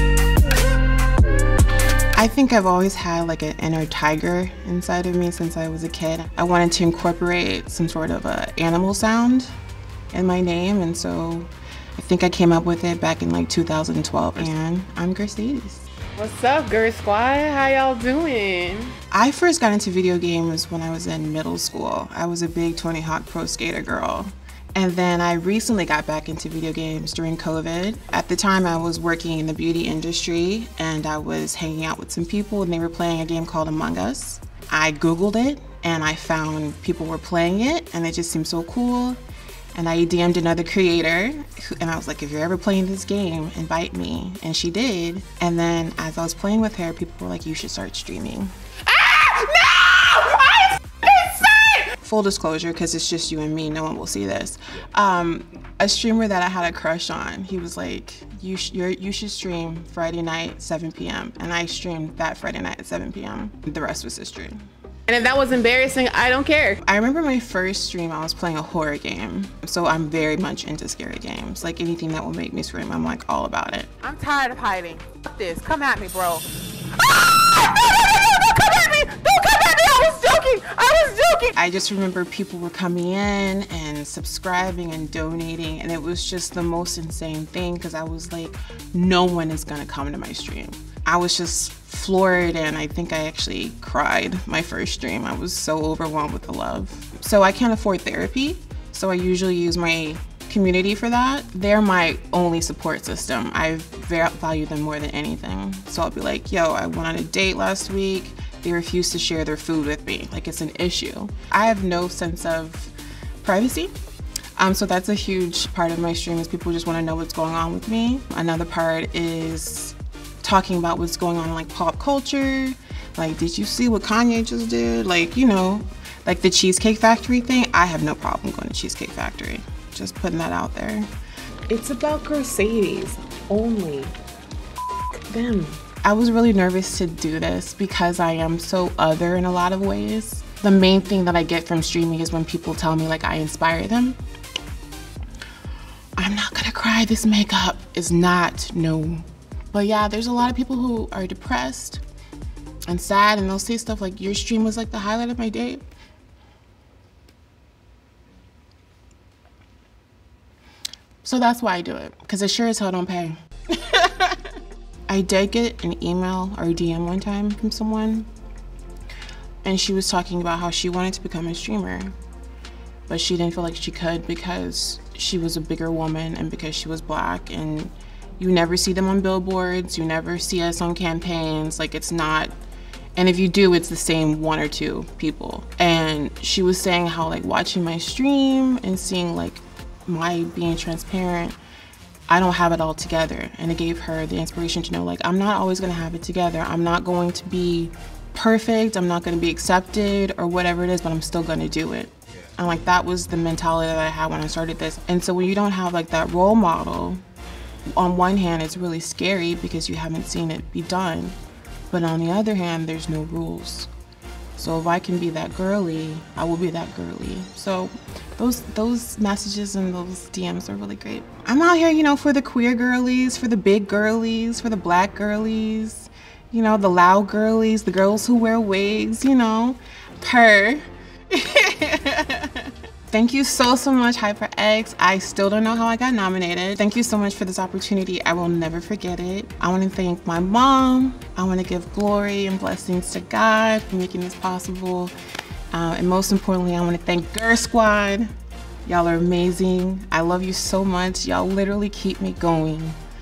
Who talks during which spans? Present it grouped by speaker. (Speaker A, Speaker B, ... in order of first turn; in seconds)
Speaker A: 2.1-9.5, 10.1-15.8, 19.1-39.2, 39.7-48.5, 51.9-64.6, 66.8-74.0, 81.5-113.9, 114.6-131.1, 135.4-144.2, 146.2-152.0, 152.9-155.8, 161.2-164.5, 165.1-168.3, 169.6-172.1, 173.1-182.5, 183.2-191.6, 192.3-207.2, 207.8-211.3, 211.9-213.9, 214.6-245.1, 245.7-248.3, 248.8-253.0
Speaker B: 16.1-18.9, 48.9-51.9, 65.1-66.8, 74.0-81.5, 131.7-134.1, 135.3-135.7